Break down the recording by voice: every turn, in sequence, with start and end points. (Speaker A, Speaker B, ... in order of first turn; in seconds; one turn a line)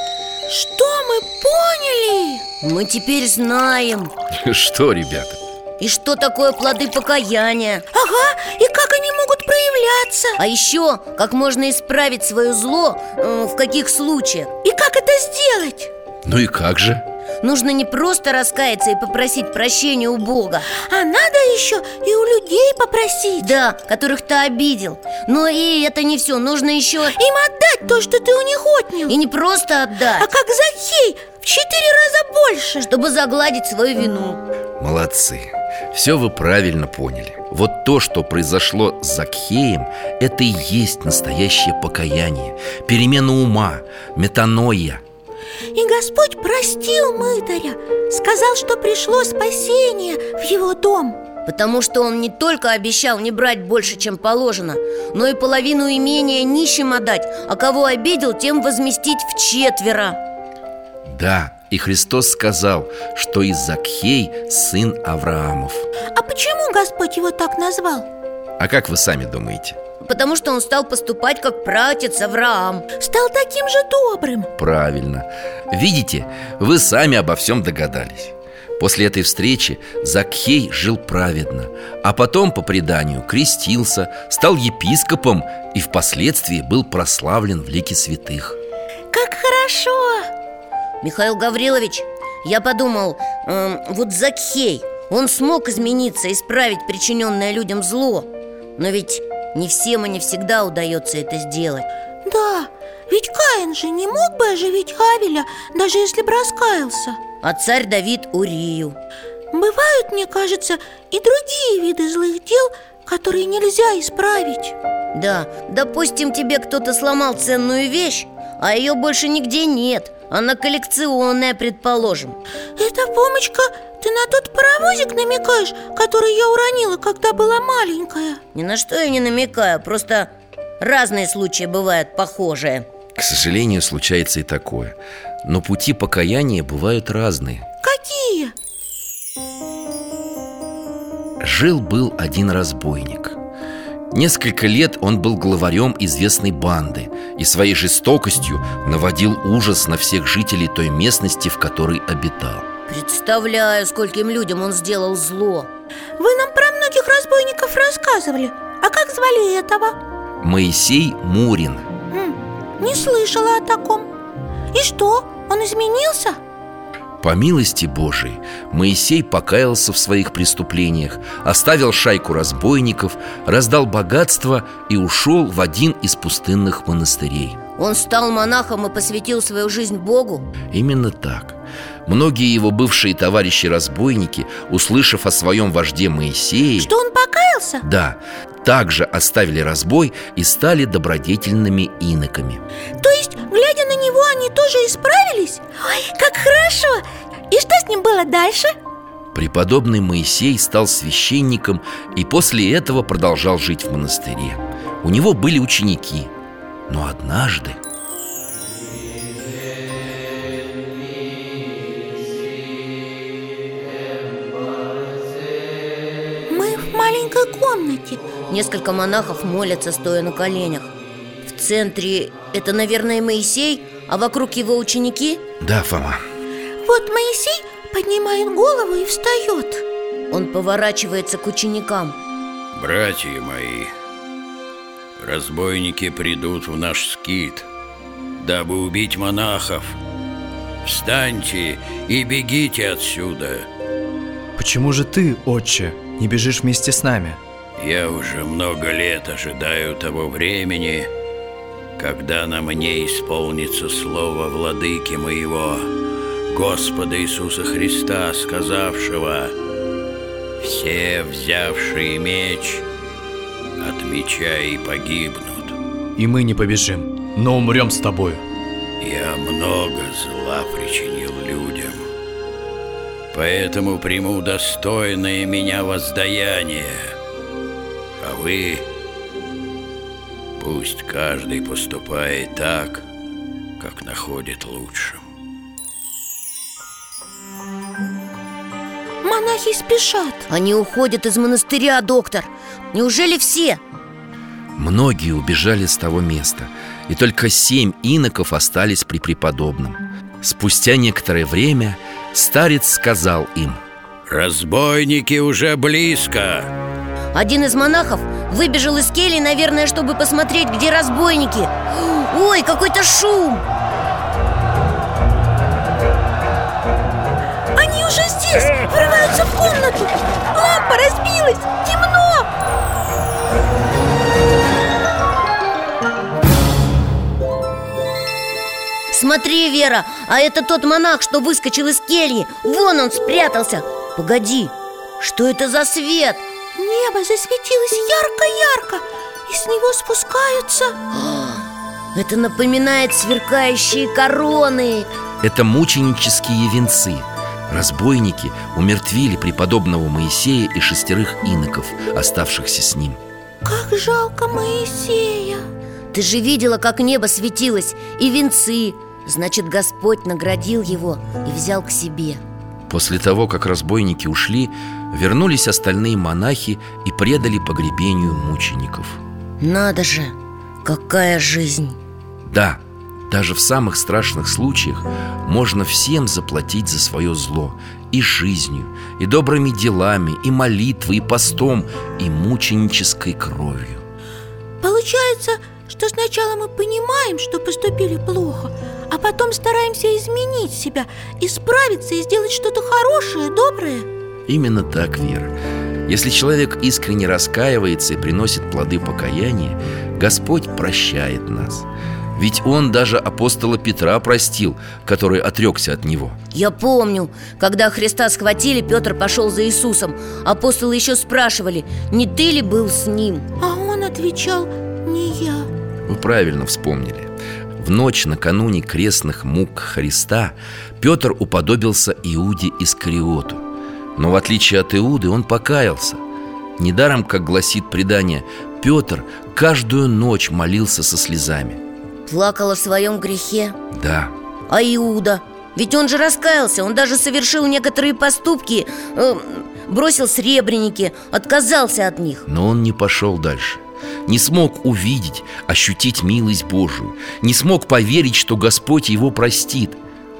Speaker A: 0.5-2.4
Speaker B: 2.6-4.1
Speaker C: 4.3-5.4
Speaker B: 5.8-7.8
Speaker A: 7.9-10.4
Speaker B: 10.4-14.5
Speaker A: 14.6-15.9
Speaker C: 16.2-17.0
Speaker B: 17.4-20.7
Speaker A: 20.7-23.5
Speaker B: 23.4-27.1
Speaker A: 27.1-29.1
Speaker B: 29.1-30.3
Speaker A: 30.2-32.9
Speaker B: 32.9-34.4
Speaker C: 34.8-45.0
Speaker A: 45.7-51.2
Speaker B: 51.5-60.2
Speaker C: 61.0-65.9
Speaker A: 66.1-68.1
Speaker C: 68.6-69.8
Speaker B: 70.0-72.8
Speaker A: 73.0-74.5
Speaker C: 74.6-88.6
Speaker A: 89.1-90.3
Speaker B: 91.0-101.9
Speaker A: 102.2-107.2
Speaker B: 107.4-109.0
Speaker A: 109.5-114.7
Speaker B: 115.1-122.4
Speaker A: 122.8-128.4
Speaker B: 128.5-132.9
Speaker C: 133.2-137.6
Speaker A: 137.8-138.5
Speaker C: 141.4-143.4
Speaker C: 144.1-152.7
Speaker B: 152.9-155.7
Speaker A: 156.2-159.9
Speaker C: 160.4-161.8
Speaker A: 162.1-164.1
Speaker A: 164.7-166.4
Speaker C: 167.2-177.6
Speaker B: 177.8-180.5
Speaker C: 180.7-186.9
Speaker A: 186.8-187.8
Speaker C: 187.8-192.6
Speaker A: 193.0-198.7
Speaker C: 199.3-206.3
Speaker C: 206.9-207.8
Speaker A: 216.5-218.2
Speaker B: 218.5-220.9
Speaker B: 221.4-225.4
Speaker C: 225.6-226.2
Speaker A: 226.8-229.8
Speaker B: 230.3-232.2
Speaker D: 232.7-233.9
Speaker D: 235.2-237.7
Speaker D: 238.4-240.0
Speaker D: 240.8-243.7
Speaker E: 244.6-247.4
Speaker D: 247.8-251.1
Speaker D: 252.0-255.9
Speaker D: 256.5-259.5
Speaker D: 260.6-262.9
Speaker D: 263.8-265.8
Speaker E: 266.2-268.4
Speaker D: 269.0-272.1
Speaker D: 273.3-277.1
Speaker D: 278.2-278.9
Speaker D: 280.6-283.1
Speaker D: 283.8-285.2
Speaker A: 289.2-290.5
Speaker B: 290.5-293.8
Speaker C: 294.8-303.8
Speaker D: 304.3-306.7
Speaker B: 307.3-313.6
Speaker A: 317.8-322.5
Speaker B: 329.1-336.4
Speaker A: 336.8-341.0
Speaker B: 341.1-345.1
Speaker C: 345.4-353.2
Speaker A: 353.6-355.7
Speaker B: 356.1-362.4
Speaker C: 362.9-369.2
Speaker B: 369.6-372.0
Speaker C: 372.4-384.0
Speaker A: 384.8-394.1
Speaker C: 394.5-395.5
Speaker C: 396.1-406.4
Speaker B: 406.5-413.4
Speaker A: 413.6-415.7
Speaker C: 416.1-423.6
Speaker C: 424.1-426.2
Speaker C: 426.8-431.8
Speaker B: 432.3-433.8
Speaker C: 433.9-434.3
Speaker B: 434.7-442.4
Speaker C: 442.5-450.0